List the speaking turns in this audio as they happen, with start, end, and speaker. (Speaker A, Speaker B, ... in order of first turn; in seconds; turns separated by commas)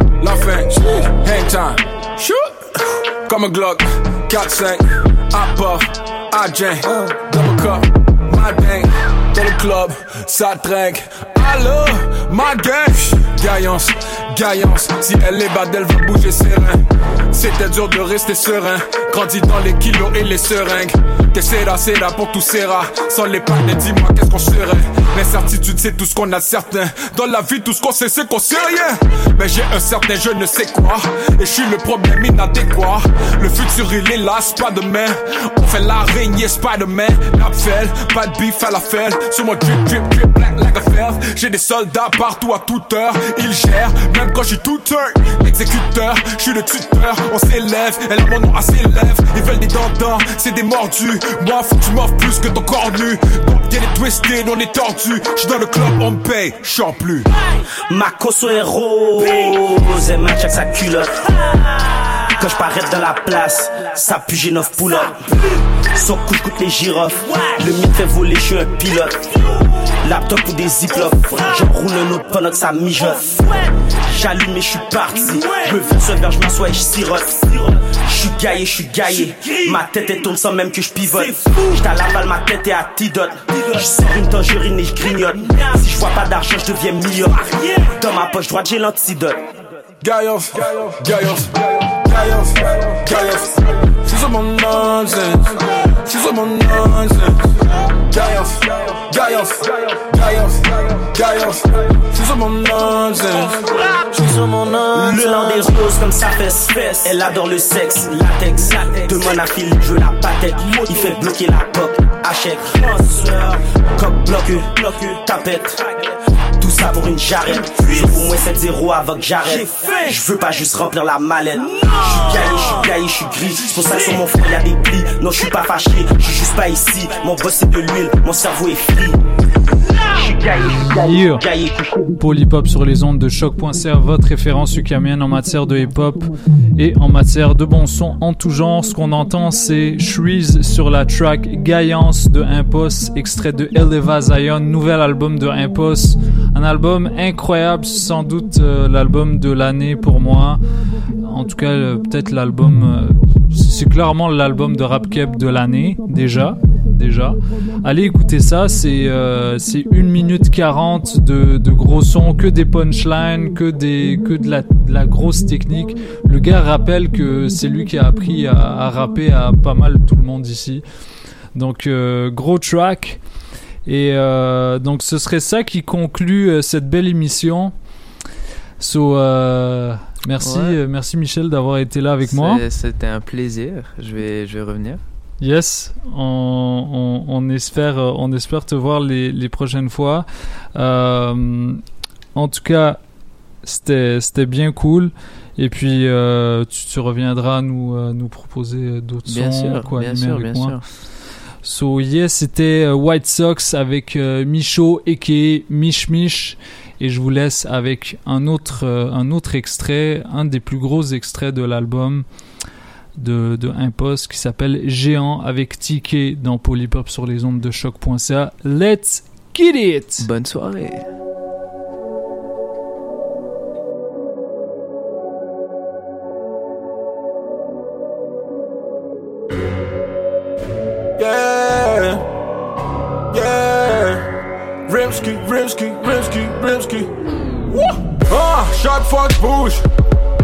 Speaker A: 0.2-2.4, Speaker A: 3.3-57.3, Speaker B: 57.9-61.5, Speaker B: 62.4-65.2, Speaker B: 65.9-69.4, Speaker B: 70.0-89.4, Speaker A: 90.0-105.0, Speaker B: 104.9-115.8, Speaker B: 116.6-129.2, Speaker B: 130.0-131.8, Speaker C: 130.9-131.4, Speaker C: 132.2-150.6, Speaker C: 151.2-170.8, Speaker C: 171.5-173.2, Speaker C: 173.8-177.7, Speaker C: 178.8-182.6, Speaker D: 180.4-180.8, Speaker D: 182.2-185.0, Speaker C: 185.4-191.8, Speaker C: 192.3-193.0, Speaker C: 193.6-200.8, Speaker D: 199.3-200.8, Speaker C: 201.6-212.2, Speaker C: 213.2-220.2, Speaker D: 220.2-221.0, Speaker A: 231.2-232.2, Speaker A: 233.3-234.2, Speaker A: 234.9-237.1, Speaker A: 237.7-239.8